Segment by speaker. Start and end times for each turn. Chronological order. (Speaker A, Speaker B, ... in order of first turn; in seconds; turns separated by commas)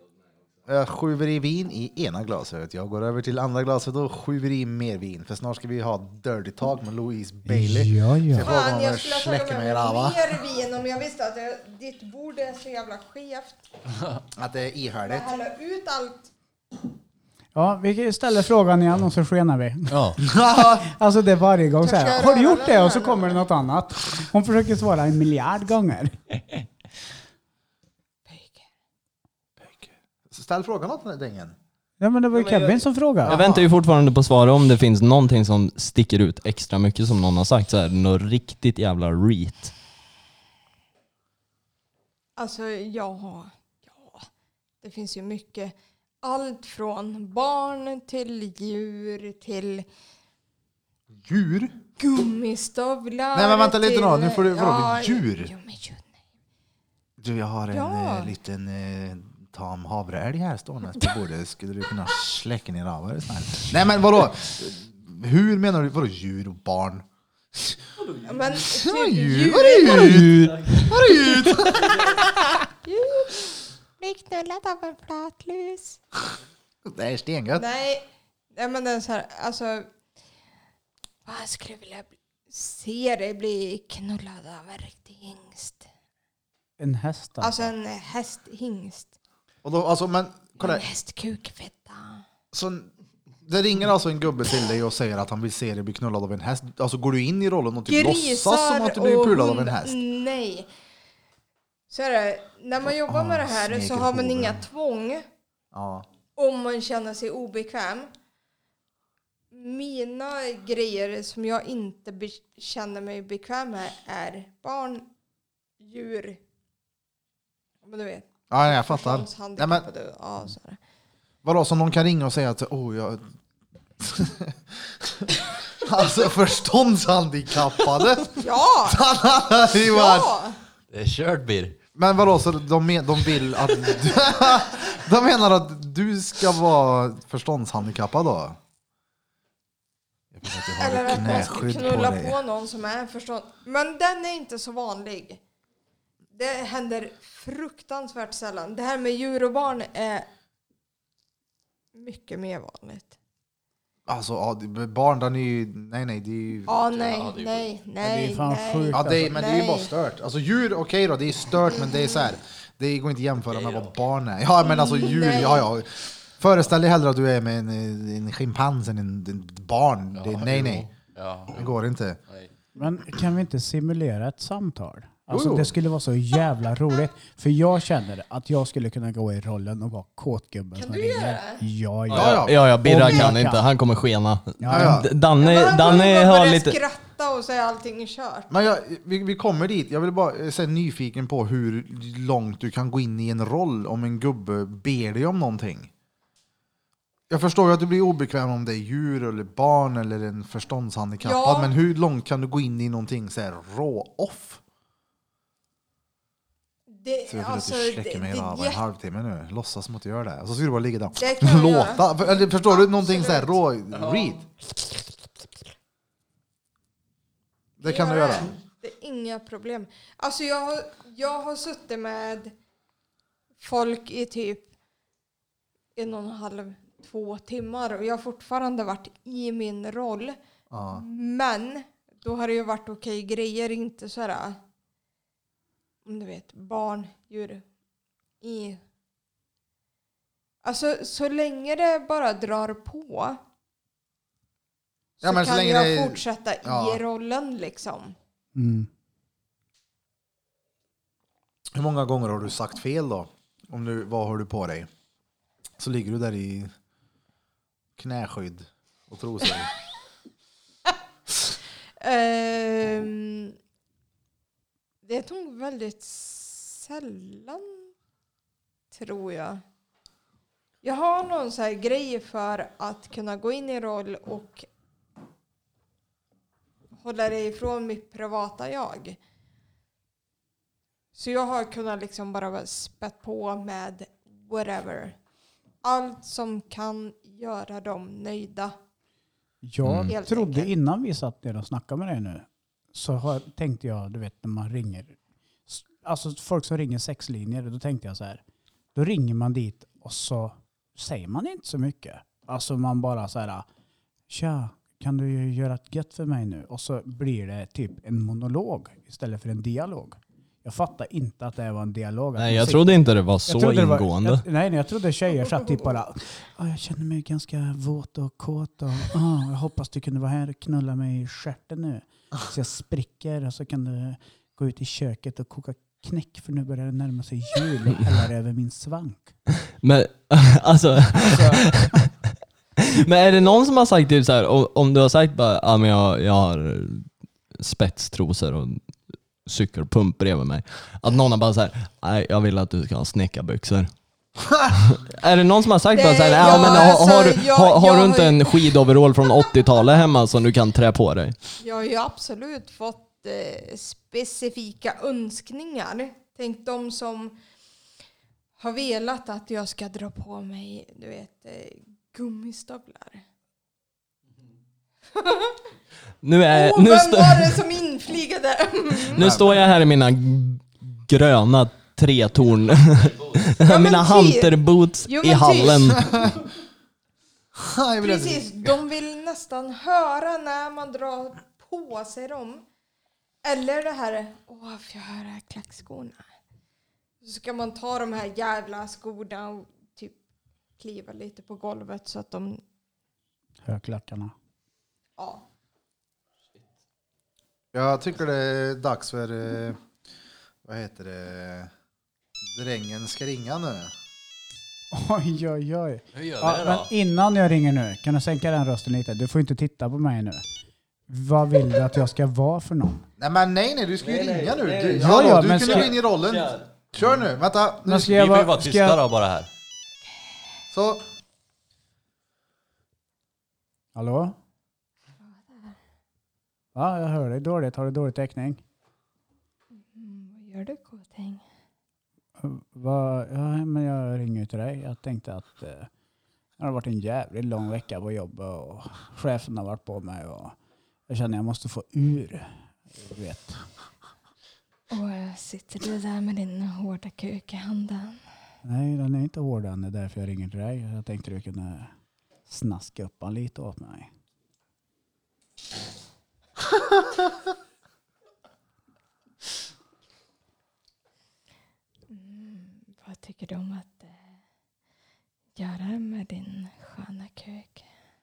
Speaker A: 0.7-10.4, Speaker B: 7.5-8.5, Speaker C: 8.4-13.7, Speaker A: 14.4-15.3, Speaker C: 15.1-16.3, Speaker B: 17.6-20.2, Speaker D: 19.9-20.2, Speaker A: 20.2-20.9, Speaker B: 20.8-26.2, Speaker C: 21.8-23.4, Speaker C: 28.3-28.7, Speaker A: 29.6-31.6, Speaker B: 32.0-33.4, Speaker E: 32.3-39.7, Speaker A: 33.2-33.7, Speaker C: 42.4-44.2, Speaker C: 44.8-49.9, Speaker A: 51.2-51.7, Speaker C: 52.0-56.2, Speaker A: 53.3-55.5, Speaker A: 57.2-67.8, Speaker C: 57.7-58.3, Speaker C: 68.2-70.3, Speaker A: 68.6-72.1, Speaker E: 69.8-71.0, Speaker C: 71.8-76.0, Speaker A: 76.9-77.7, Speaker C: 77.5-79.9, Speaker C: 81.2-85.9, Speaker B: 86.8-87.6, Speaker C: 87.4-89.1, Speaker A: 89.6-90.8, Speaker C: 90.6-92.2, Speaker A: 92.5-92.9, Speaker A: 93.5-100.0, Speaker C: 97.9-100.7, Speaker C: 101.9-105.3, Speaker A: 102.9-104.6, Speaker A: 105.7-106.1, Speaker C: 106.4-108.1, Speaker C: 109.5-115.1, Speaker C: 115.8-116.4, Speaker C: 117.8-118.3, Speaker A: 118.5-119.9, Speaker C: 118.8-120.8, Speaker A: 121.4-123.2, Speaker A: 124.0-130.3, Speaker C: 128.3-129.0, Speaker C: 129.8-130.6, Speaker D: 130.9-131.8, Speaker A: 132.0-138.6, Speaker A: 140.3-142.4, Speaker C: 140.8-145.4, Speaker C: 146.3-150.3, Speaker C: 151.9-153.1, Speaker A: 154.1-156.7, Speaker C: 156.7-159.9, Speaker D: 156.9-157.7, Speaker B: 158.0-159.4, Speaker A: 158.9-170.9, Speaker D: 163.5-163.9, Speaker C: 164.6-165.7, Speaker D: 170.2-171.7, Speaker A: 171.5-172.2, Speaker B: 172.8-183.6, Speaker A: 175.3-175.8, Speaker C: 180.8-181.6, Speaker E: 182.1-186.8, Speaker A: 182.1-182.6, Speaker B: 184.6-185.0, Speaker A: 184.7-185.1, Speaker C: 185.4-188.5, Speaker A: 188.5-195.9, Speaker A: 197.3-204.6, Speaker C: 201.2-201.7, Speaker C: 206.9-208.8, Speaker A: 207.3-214.5, Speaker C: 211.2-213.5, Speaker A: 217.8-218.5, Speaker C: 217.8-222.5, Speaker C: 223.6-224.7, Speaker C: 225.9-230.4, Speaker A: 230.7-231.1, Speaker C: 230.9-234.6, Speaker C: 236.1-237.6, Speaker C: 238.4-238.8, Speaker C: 240.6-243.4, Speaker C: 245.2-248.2, Speaker A: 245.2-247.0, Speaker B: 248.6-248.9, Speaker A: 251.7-254.9, Speaker A: 255.8-256.7, Speaker A: 258.0-259.7, Speaker C: 262.0-263.6, Speaker C: 265.0-267.9, Speaker C: 268.9-269.6, Speaker C: 270.8-274.7, Speaker C: 277.0-279.2, Speaker C: 281.1-285.2, Speaker C: 285.8-288.8, Speaker B: 289.6-295.2, Speaker E: 289.8-290.1, Speaker C: 290.1-290.7, Speaker B: 295.7-298.4, Speaker B: 298.9-303.7, Speaker B: 304.3-329.4, Speaker E: 312.4-314.4, Speaker E: 329.8-332.1, Speaker B: 331.2-331.7, Speaker E: 332.9-338.8, Speaker E: 339.4-343.9, Speaker E: 344.7-351.4, Speaker C: 345.9-348.8, Speaker C: 351.6-357.4, Speaker C: 358.6-363.2, Speaker C: 365.1-365.6, Speaker E: 366.2-367.6, Speaker C: 366.5-369.2, Speaker E: 369.1-376.1, Speaker A: 369.1-369.6, Speaker C: 373.6-376.1, Speaker A: 376.0-376.4, Speaker A: 377.6-378.8, Speaker C: 378.0-382.6, Speaker C: 383.4-386.2, Speaker C: 387.2-390.2, Speaker C: 390.8-392.6, Speaker B: 393.6-394.3, Speaker C: 395.2-395.4, Speaker A: 397.7-399.8, Speaker A: 400.6-401.7, Speaker A: 402.4-403.9, Speaker B: 404.9-410.4, Speaker D: 406.1-406.9, Speaker B: 411.1-413.1, Speaker A: 413.2-418.1, Speaker E: 414.0-416.6, Speaker B: 414.9-415.9, Speaker B: 417.9-419.0, Speaker D: 418.0-419.5, Speaker A: 420.7-421.0, Speaker B: 423.9-424.4, Speaker C: 425.2-425.8, Speaker B: 426.8-428.6, Speaker C: 429.7-431.4, Speaker B: 432.4-435.9, Speaker B: 436.6-440.6, Speaker B: 441.1-443.6, Speaker C: 444.9-448.2, Speaker B: 448.6-451.9, Speaker B: 452.5-454.1, Speaker C: 462.1-464.3, Speaker C: 465.6-467.9